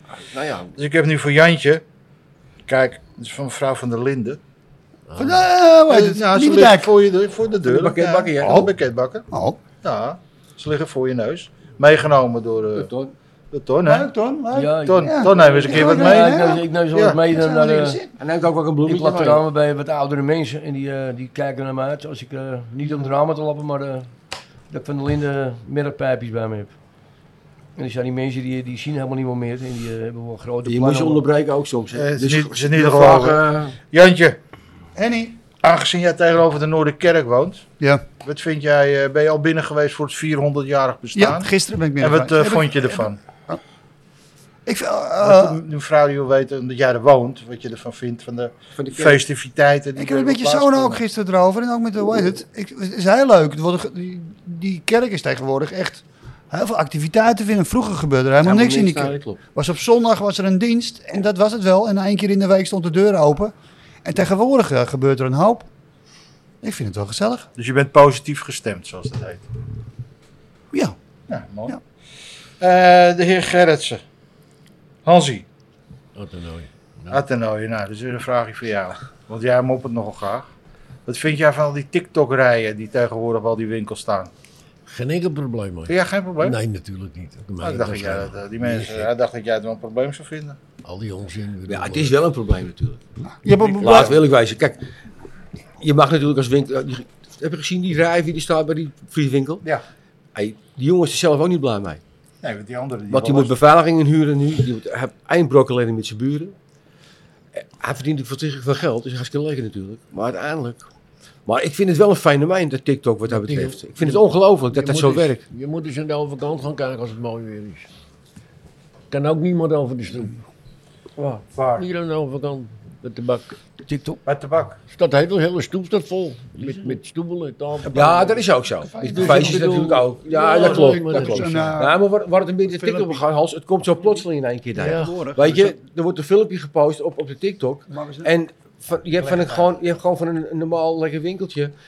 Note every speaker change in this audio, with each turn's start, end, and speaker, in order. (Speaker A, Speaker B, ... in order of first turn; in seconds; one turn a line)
Speaker A: 0.2-0.7
Speaker B: 0.8-1.8
Speaker B: 2.7-4.4
Speaker C: 5.1-5.5
Speaker D: 5.2-6.9
Speaker B: 5.9-12.9
Speaker A: 7.6-8.7
Speaker D: 8.4-8.7
Speaker D: 9.3-9.6
Speaker A: 12.8-13.1
Speaker B: 13.5-14.1
Speaker D: 13.8-16.6
Speaker E: 14.5-18.0
Speaker B: 14.8-17.2
Speaker D: 17.3-18.1
Speaker A: 18.2-19.4
Speaker E: 18.9-24.1
Speaker E: 24.7-26.8
Speaker E: 27.8-31.2
Speaker A: 30.6-33.8
Speaker B: 31.9-34.4
Speaker D: 35.0-35.4
Speaker B: 35.4-37.6
Speaker D: 37.8-38.1
Speaker B: 38.2-43.2
Speaker D: 41.1-43.6
Speaker D: 44.6-45.6
Speaker B: 45.2-51.0
Speaker A: 48.8-49.2
Speaker D: 50.0-63.5
Speaker A: 58.4-59.4
Speaker D: 64.0-65.7
Speaker D: 66.6-67.5
Speaker B: 67.6-69.5
Speaker B: 71.3-71.8
Speaker B: 72.6-74.0
Speaker B: 75.0-75.5
Speaker C: 76.1-77.2
Speaker B: 77.1-80.5
Speaker B: 81.0-84.3
Speaker C: 84.9-89.1
Speaker B: 85.9-86.6
Speaker B: 87.6-90.6
Speaker C: 90.8-92.2
Speaker A: 91.7-93.0
Speaker B: 93.4-94.2
Speaker A: 93.8-94.9
Speaker A: 95.8-99.6
Speaker A: 100.3-102.0
Speaker B: 102.4-103.5
Speaker A: 103.1-106.5
Speaker A: 107.5-110.9
Speaker A: 111.5-115.4
Speaker C: 113.3-117.9
Speaker C: 119.1-120.4
Speaker A: 121.2-121.4
Speaker B: 121.5-121.8
Speaker C: 121.8-123.5
Speaker E: 123.8-124.2
Speaker B: 124.2-124.8
Speaker C: 124.9-128.5
Speaker A: 127.9-141.7
Speaker D: 128.9-129.7
Speaker C: 129.0-131.8
Speaker D: 130.5-132.0
Speaker D: 132.7-133.2
Speaker C: 134.8-135.4
Speaker D: 134.8-135.7
Speaker D: 137.9-138.3
Speaker B: 139.2-139.6